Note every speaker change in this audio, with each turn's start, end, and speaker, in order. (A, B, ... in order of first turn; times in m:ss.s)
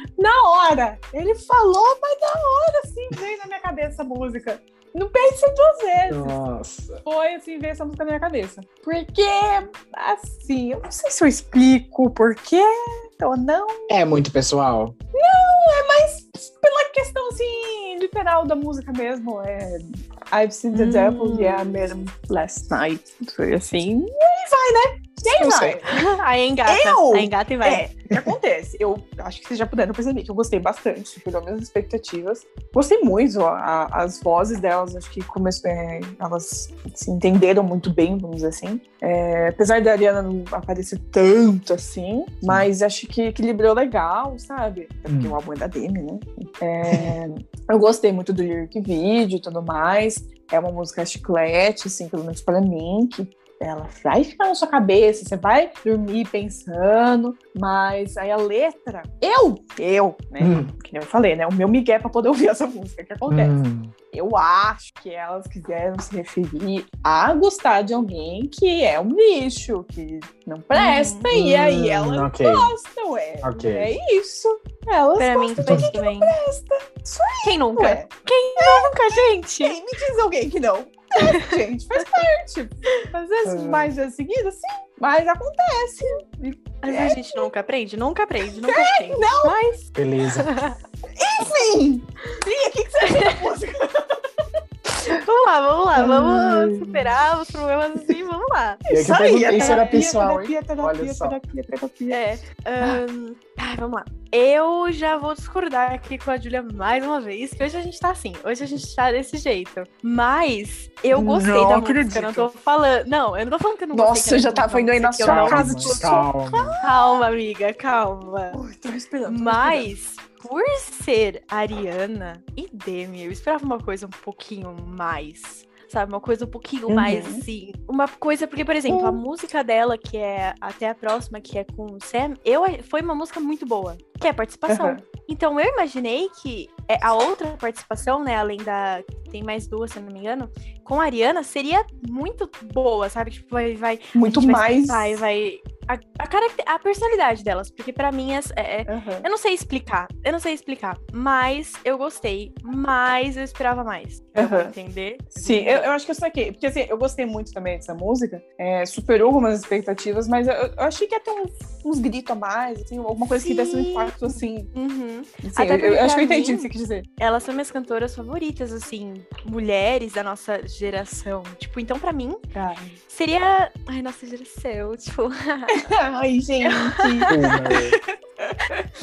0:00.2-0:06.4 A
0:06.1-0:07.0 B
0:07.0-0:13.9 A
0:13.9-0:15.0 B
0:15.2-0:26.0 A
0:20.7-0:21.8 C
0:25.4-0:27.8 C
0:25.4-0:25.7 B
0:26.7-1:03.6 A
0:45.1-0:45.4 B
0:46.9-0:47.2 B
1:00.4-1:00.7 B
1:03.3-1:03.9 B
1:04.1-1:27.5 A
1:10.7-1:11.2 C
1:11.3-1:12.7 B
1:13.4-1:14.0 B
1:15.2-1:16.4 C
1:15.6-1:15.9 B
1:17.4-1:19.8 C
1:21.4-1:22.0 C
1:23.4-1:23.9 B
1:26.8-1:29.8 C
1:28.7-1:29.6 A
1:29.9-1:30.5 B
1:30.4-1:30.8 C
1:31.2-1:34.1 A
1:33.0-1:33.4 C
1:35.0-1:38.8 C
1:36.0-1:37.2 A
1:38.9-1:42.2 A
1:38.9-1:41.4 B
1:39.5-1:40.0 C
1:42.1-1:56.1 C
1:51.1-1:52.5 A
1:53.9-1:57.0 A
1:55.2-1:56.8 B
1:56.8-1:58.6 C
1:58.5-1:59.9 A
1:59.3-2:35.9 C
2:06.9-2:07.4 A
2:08.9-2:09.2 A
2:14.7-2:15.0 A
2:24.2-2:25.2 A
2:28.9-2:29.3 A
2:34.4-2:34.7 A
2:35.4-2:44.7 A
2:43.4-2:52.4 C
2:45.4-2:47.1 A
2:52.5-2:53.0 A
2:53.1-2:55.8 C
2:55.7-2:58.8 A
2:57.3-2:58.0 B